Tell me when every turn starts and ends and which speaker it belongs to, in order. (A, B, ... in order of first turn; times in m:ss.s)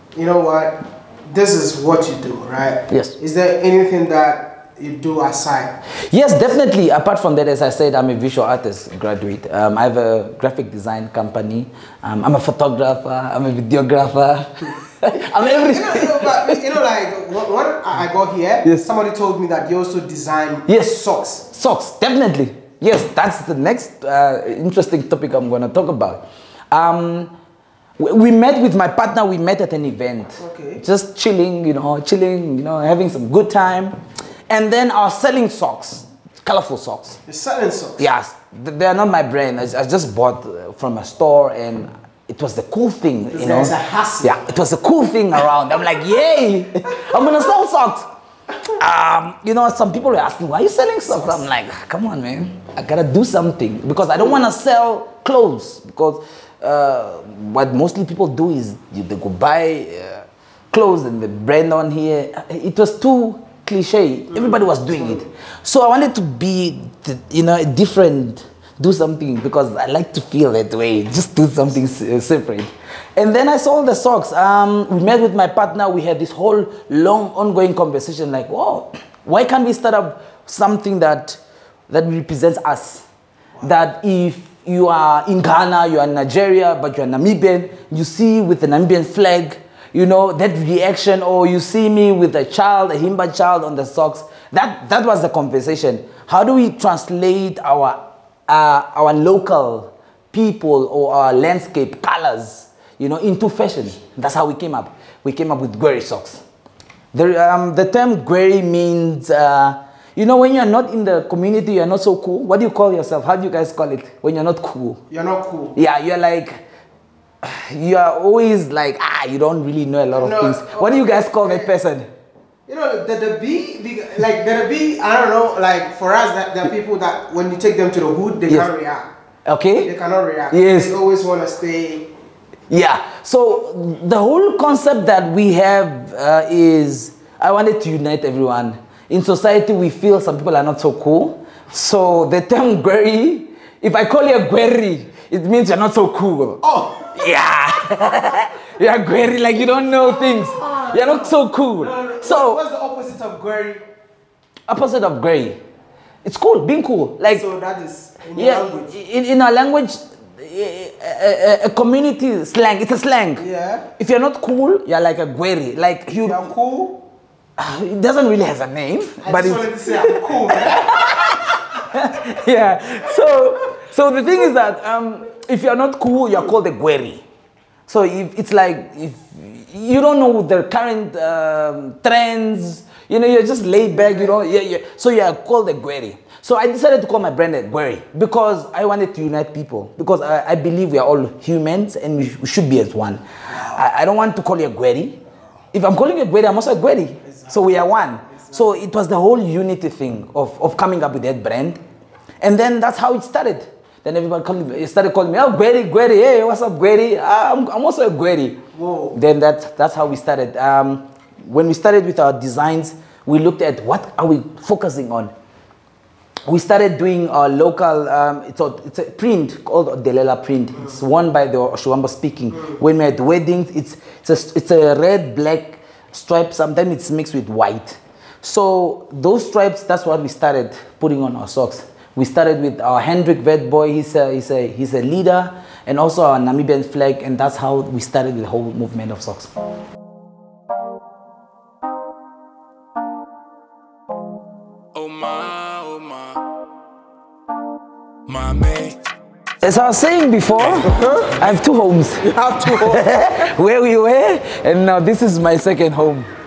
0:00.1-0:05.8 A
0:02.9-0:03.2 B
0:06.0-0:16.6 B
0:15.1-0:21.4 A
0:20.7-0:27.3 B
0:28.0-0:34.0 B
0:30.4-0:30.8 A
0:34.5-0:37.2 B
0:37.2-0:38.1 A
0:38.0-0:48.1 B
0:43.3-0:44.4 A
0:48.6-1:23.0 B
0:51.1-0:51.4 A
1:04.3-1:05.3 A
1:23.6-1:46.4 B
1:47.1-1:55.0 B
1:55.1-1:55.8 A
1:55.7-1:56.6 B
1:57.4-2:02.1 B
2:00.2-2:01.7 A
2:02.7-2:09.1 A
2:09.4-2:09.9 B
2:09.8-2:12.1 A
2:10.5-2:10.9 B
2:12.7-2:32.6 B
2:26.6-2:27.1 A
2:29.8-2:33.8 A
2:34.7-2:35.6 B
2:36.2-2:37.4 B
2:37.2-2:39.0 A
2:38.3-2:43.4 B
2:43.4-2:43.9 A
2:44.0-2:46.5 B
2:46.1-2:47.0 A
2:47.6-2:57.2 B
2:49.2-2:51.3 A
2:57.9-3:15.2 B
3:15.7-3:21.8 B
3:17.3-3:18.6 A
3:22.4-3:35.3 B
3:28.7-3:29.2 A
3:36.4-3:59.5 B
4:04.9-4:06.4 C
4:08.3-4:09.0 C
4:09.6-4:16.3 B
4:10.6-4:11.2 C
4:10.8-4:11.5 A
4:12.2-4:13.5 A